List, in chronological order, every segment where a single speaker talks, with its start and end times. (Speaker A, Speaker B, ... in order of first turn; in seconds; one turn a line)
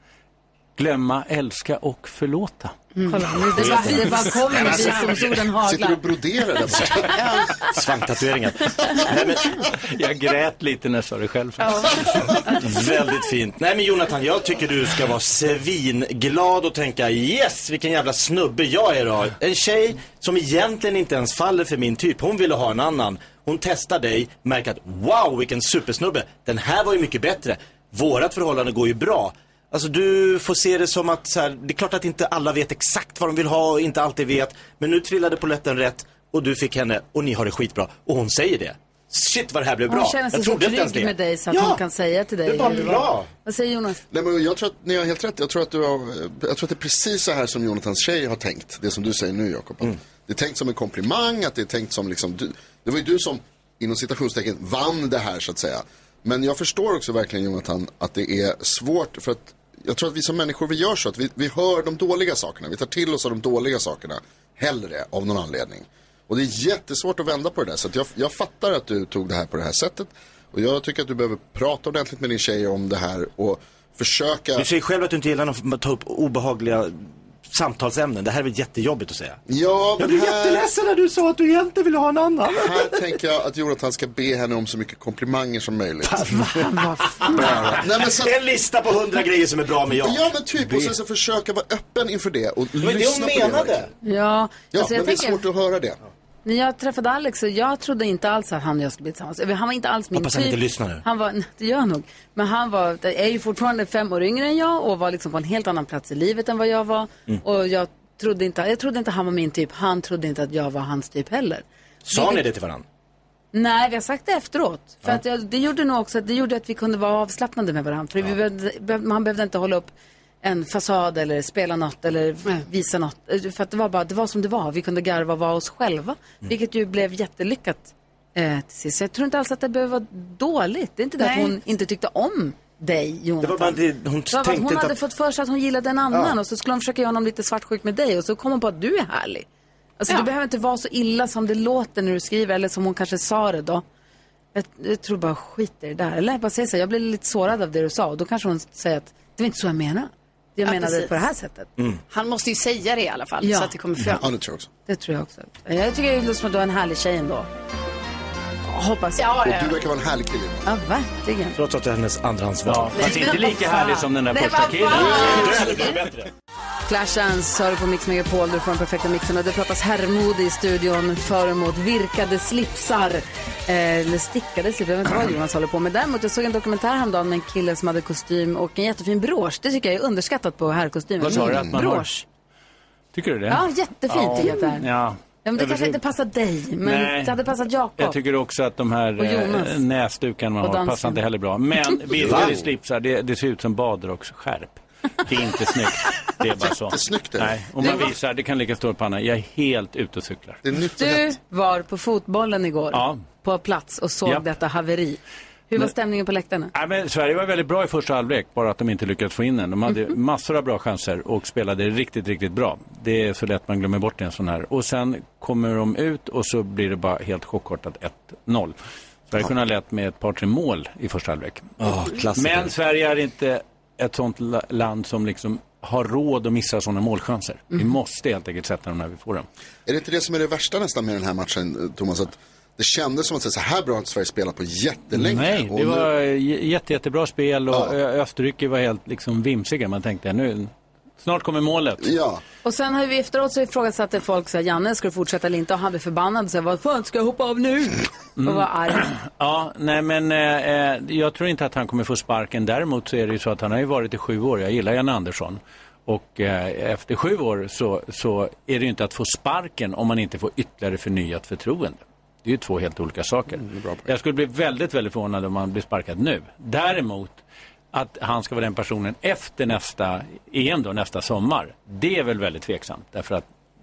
Speaker A: 0.8-2.7
Speaker B: 3.0-4.0
Speaker C: 3.0-6.0
Speaker A: 3.6-4.5
Speaker D: 3.6-5.3
Speaker E: 5.6-7.3
Speaker B: 7.1-7.6
Speaker D: 7.6-9.6
Speaker A: 9.8-12.2
Speaker B: 11.6-12.6
Speaker D: 12.6-41.8
Speaker C: 39.9-44.0
Speaker D: 42.4-43.3
Speaker E: 44.1-74.7
Speaker D: 74.5-79.4
Speaker E: 79.5-80.6
Speaker D: 80.0-82.9
Speaker E: 82.5-86.2
Speaker D: 86.0-90.9
Speaker C: 86.3-87.6
Speaker E: 87.2-88.3
Speaker E: 90.0-93.9
Speaker D: 92.8-93.9
Speaker C: 94.0-95.4
Speaker E: 94.7-96.0
Speaker C: 96.4-112.4
Speaker D: 100.1-101.0
Speaker D: 112.0-112.8
Speaker C: 113.5-119.9
Speaker C: 120.4-133.8
Speaker B: 131.2-131.5
Speaker D: 133.4-135.0
Speaker C: 134.3-139.4
Speaker C: 140.0-143.8
Speaker C: 144.5-151.7
Speaker B: 150.6-151.3
Speaker B: 152.1-154.3
Speaker C: 153.4-153.7
Speaker E: 154.1-154.7
Speaker C: 154.9-157.5
Speaker C: 158.7-159.3
Speaker B: 159.2-159.8
Speaker E: 159.4-160.7
Speaker C: 160.6-161.6
Speaker D: 161.6-163.3
Speaker A: 162.6-165.6
Speaker C: 163.0-166.0
Speaker B: 163.0-163.4
Speaker D: 165.0-166.3
Speaker E: 165.0-165.5
Speaker C: 166.9-182.2
Speaker A: 181.2-182.1
Speaker A: 183.1-186.0
Speaker C: 183.5-184.8
Speaker C: 185.4-188.2
Speaker A: 186.8-200.6
Speaker C: 189.2-189.8
Speaker C: 190.6-191.2
Speaker D: 192.1-192.6
Speaker E: 192.2-192.6
Speaker E: 196.6-198.1
Speaker E: 200.6-201.3
Speaker C: 201.0-206.7
Speaker A: 202.9-203.2
Speaker A: 206.7-218.7
Speaker A: 219.3-229.4
Speaker D: 221.8-222.7
Speaker E: 229.8-236.1
Speaker A: 235.1-242.2
Speaker E: 242.0-242.4
Speaker C: 242.6-249.1
Speaker A: 248.4-267.4
Speaker E: 263.6-264.1
Speaker A: 267.9-273.4